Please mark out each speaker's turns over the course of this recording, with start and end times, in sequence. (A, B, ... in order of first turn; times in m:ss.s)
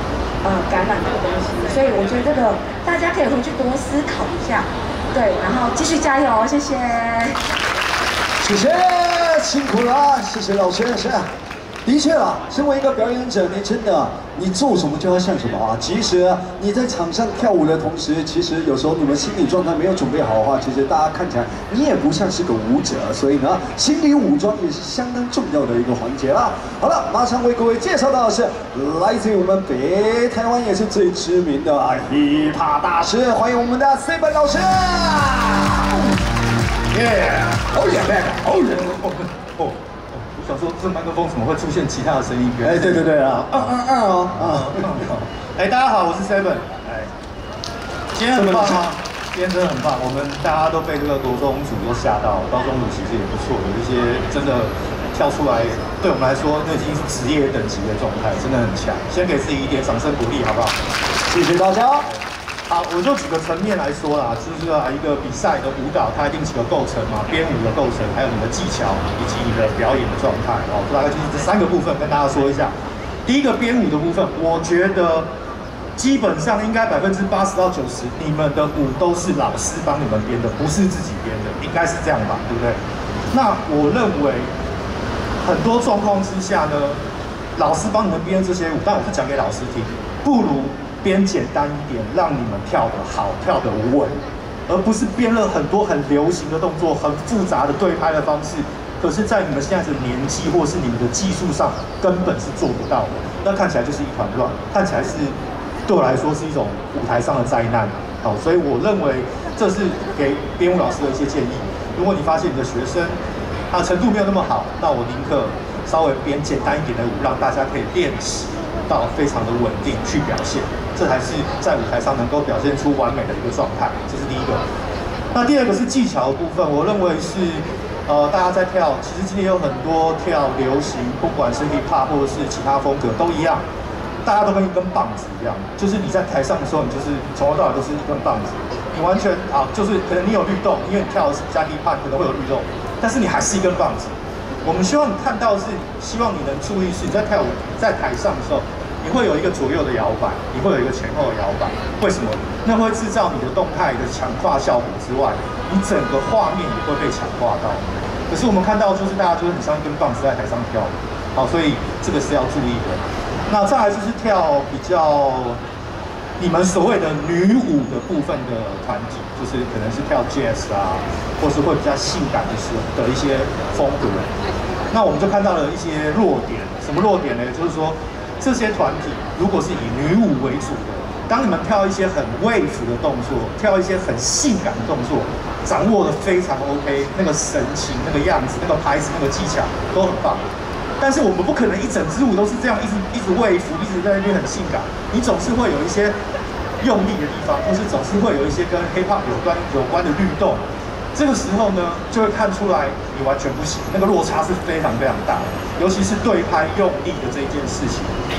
0:00.4-0:07.4 A
0:08.4-0:11.3 B
0:11.9-0:35.9 B
0:36.9-0:37.7 C
0:37.7-0:39.0 B
0:39.0-0:43.7 C
0:42.6-0:44.8 B
0:44.4-0:47.1 C
0:48.2-1:00.8 C
0:48.3-0:48.8 B
1:01.3-1:02.1 B
1:02.7-1:12.7 C
1:13.3-1:15.3 C
1:16.0-1:22.8 C
1:23.3-1:24.5 C
1:25.4-1:27.0 C
1:27.6-1:34.2 C
1:34.7-1:45.4 C
1:45.9-1:53.2 C
1:53.7-2:04.6 C
2:05.3-2:13.6 C
2:14.2-2:24.1 C
2:24.6-2:45.6 C
2:46.4-2:54.3 C
2:54.9-3:10.4 C
3:11.0-3:16.2 C
3:16.8-3:20.6 C
3:21.1-3:28.1 C